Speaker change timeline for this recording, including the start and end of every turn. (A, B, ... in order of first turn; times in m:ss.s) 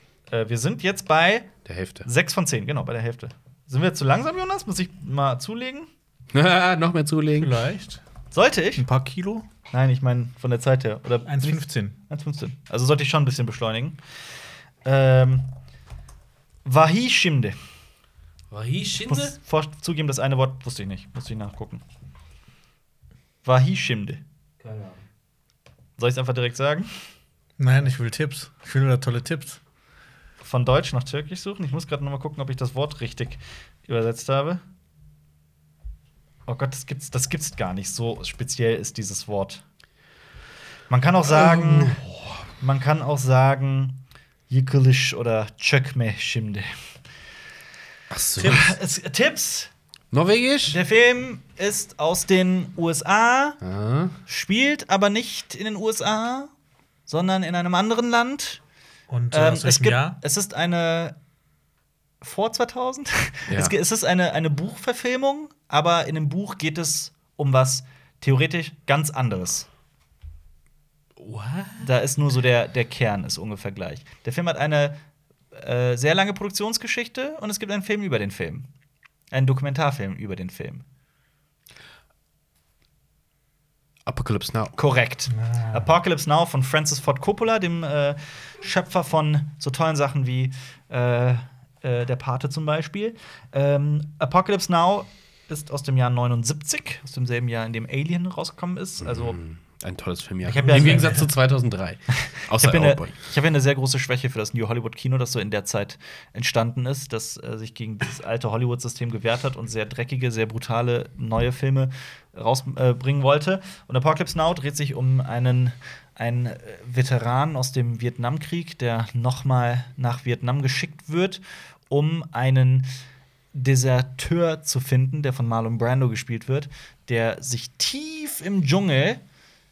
0:00.3-0:05.9 A
0:01.6-0:02.1 B
0:06.3-0:07.5 B
0:07.3-0:08.0 C
0:08.3-0:08.8 A
0:08.8-0:09.5 C
0:09.7-0:14.0 A
0:11.2-0:11.9 C
0:14.8-0:15.5 A
0:16.6-0:17.5 A
0:18.5-0:19.4 B
0:19.1-0:21.8 A
0:23.4-0:24.2 A
0:24.6-0:25.0 B
0:26.0-0:26.9 A
0:27.6-0:29.6 C
0:30.4-0:34.6 A
0:36.5-0:39.6 A
0:40.9-0:42.0 A
0:41.3-0:42.4 B
0:42.6-0:46.7 A
0:48.1-0:48.7 B
0:48.4-0:48.7 C
0:48.4-0:49.7 A
0:50.1-0:50.8 B
0:50.7-0:53.6 A
0:53.6-0:54.2 B
0:54.3-0:56.5 A
0:57.1-0:58.6 A
0:59.1-1:00.2 C
0:59.3-1:01.2 A
1:02.2-1:09.7 A
1:03.5-1:03.7 B
1:11.2-1:11.9 B
1:11.8-1:15.0 A
1:15.5-1:18.7 A
1:19.3-1:20.8 A
1:24.0-1:24.7 B
1:24.8-1:39.4 A
1:39.0-1:43.1 B
1:40.4-1:41.2 A
1:42.2-2:02.9 A
2:03.5-2:09.2 A